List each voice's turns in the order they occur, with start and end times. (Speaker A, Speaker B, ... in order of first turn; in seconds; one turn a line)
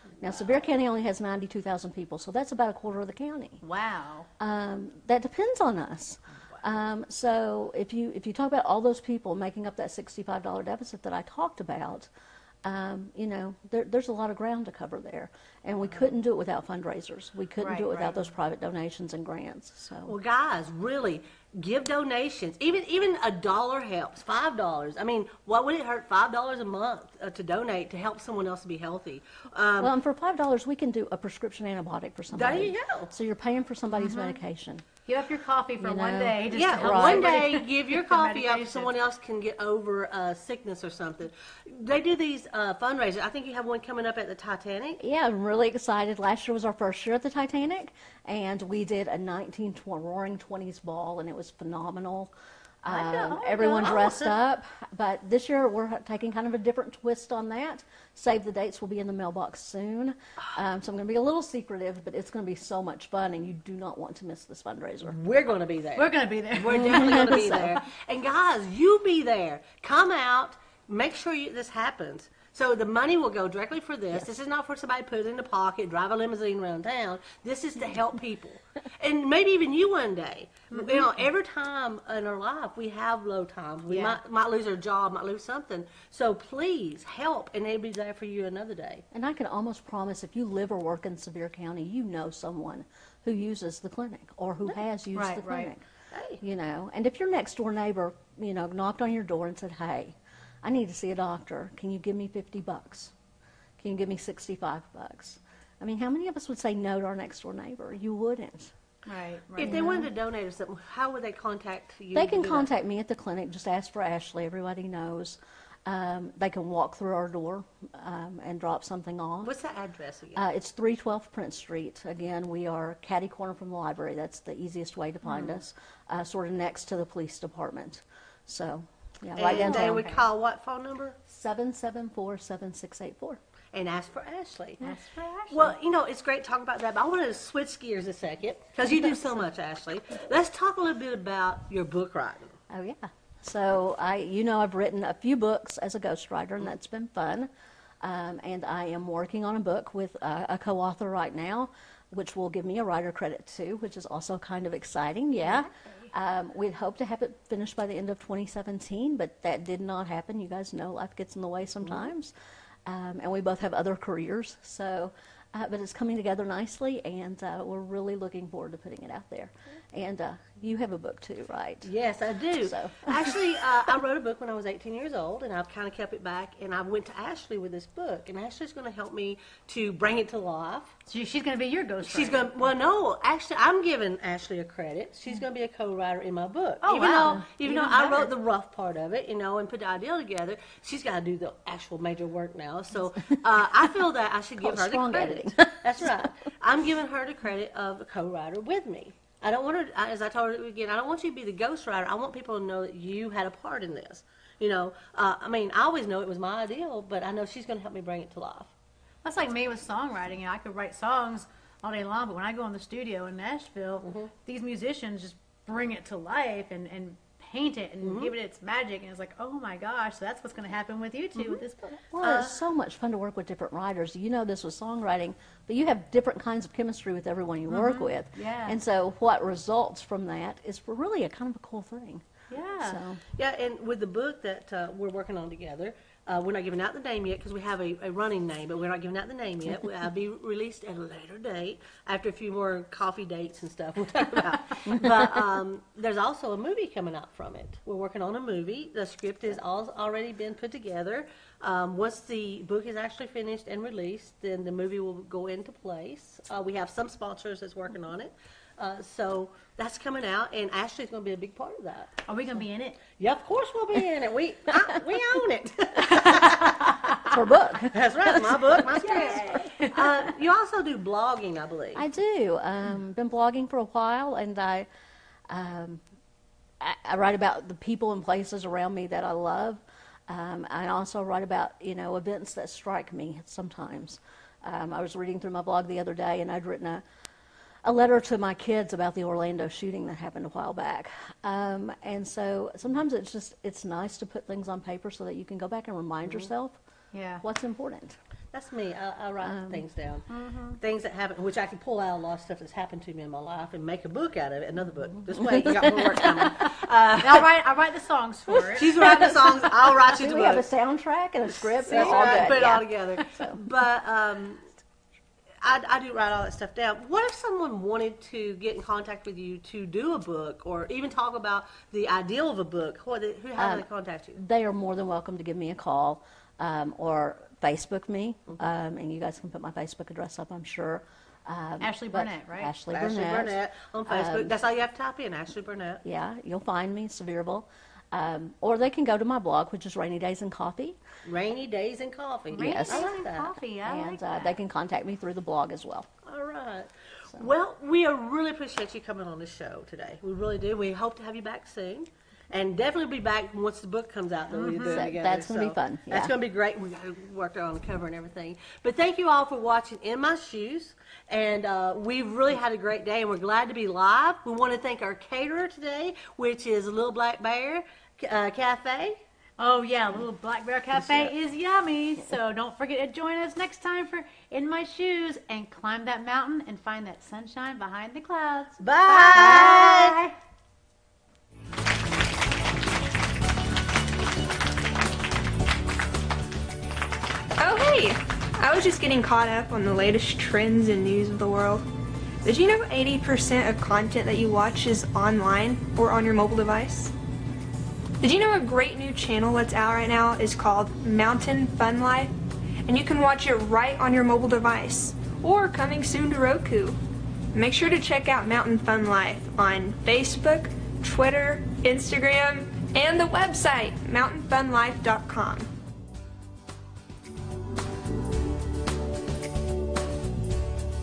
Speaker A: 0.2-3.6
Speaker B: 3.6-4.3
Speaker A: 4.4-12.1
Speaker A: 12.7-20.1
Speaker B: 17.6-18.3
Speaker C: 20.1-29.9
Speaker A: 29.8-34.9
Speaker C: 32.3-33.1
Speaker B: 33.9-34.4
Speaker B: 35.0-38.9
Speaker A: 35.8-37.4
Speaker C: 36.5-45.0
Speaker A: 45.0-65.2
Speaker B: 52.9-54.0
Speaker C: 53.9-54.3
Speaker C: 65.0-89.0
Speaker B: 66.0-67.4
Speaker A: 66.7-67.8
Speaker B: 80.7-81.1
Speaker B: 83.9-84.2
Speaker A: 89.1-95.8
Speaker B: 95.2-95.7
Speaker C: 96.1-96.4
Speaker A: 96.4-103.1
Speaker A: 103.8-108.7
Speaker B: 109.1-110.1
Speaker C: 109.6-112.7
Speaker A: 109.6-110.1
Speaker A: 112.1-119.5
Speaker C: 119.4-120.4
Speaker A: 120.3-130.0
Speaker B: 125.2-125.6
Speaker C: 129.4-131.2
Speaker B: 129.5-130.2
Speaker A: 131.3-133.4
Speaker C: 133.7-134.9
Speaker B: 134.8-135.7
Speaker C: 135.5-142.6
Speaker A: 142.7-147.5
Speaker A: 148.0-162.3
Speaker B: 155.4-156.1
Speaker C: 161.8-162.1
Speaker A: 162.9-171.9
Speaker C: 171.8-180.9
Speaker A: 172.6-173.4
Speaker B: 181.1-182.5
Speaker C: 182.1-208.7
Speaker B: 186.8-188.3
Speaker A: 194.6-196.3
Speaker B: 209.2-222.1
Speaker C: 214.0-214.3
Speaker C: 218.0-218.3
Speaker A: 221.4-232.2
Speaker B: 227.7-228.8
Speaker B: 232.5-233.0
Speaker A: 232.8-233.2
Speaker C: 233.3-262.1
Speaker B: 262.3-263.0
Speaker C: 263.2-266.9
Speaker B: 266.1-266.4
Speaker A: 267.3-269.6
Speaker C: 267.9-272.0
Speaker B: 269.1-269.9
Speaker A: 271.9-274.9
Speaker A: 275.5-276.0
Speaker A: 276.8-287.0
Speaker A: 287.8-296.8
Speaker B: 297.1-297.4
Speaker A: 297.4-298.2
Speaker C: 298.5-307.5
Speaker A: 299.4-299.8
Speaker B: 300.3-300.8
Speaker A: 305.4-306.5
Speaker B: 307.2-309.5
Speaker C: 308.8-310.7
Speaker A: 309.0-313.6
Speaker C: 311.7-314.7
Speaker B: 311.9-312.8
Speaker C: 315.6-324.4
Speaker A: 323.6-334.6
Speaker B: 331.8-332.7
Speaker C: 332.9-336.0
Speaker A: 336.0-341.0
Speaker C: 341.2-343.6
Speaker B: 342.5-344.6
Speaker A: 342.6-343.1
Speaker A: 343.9-346.1
Speaker C: 346.3-369.2
Speaker B: 354.5-355.1
Speaker A: 354.8-356.3
Speaker B: 369.6-380.3
Speaker C: 371.0-371.3
Speaker C: 378.8-380.3
Speaker D: 387.6-391.8
Speaker D: 392.4-397.1
Speaker D: 398.2-402.3
Speaker D: 402.9-407.0
Speaker D: 407.5-415.7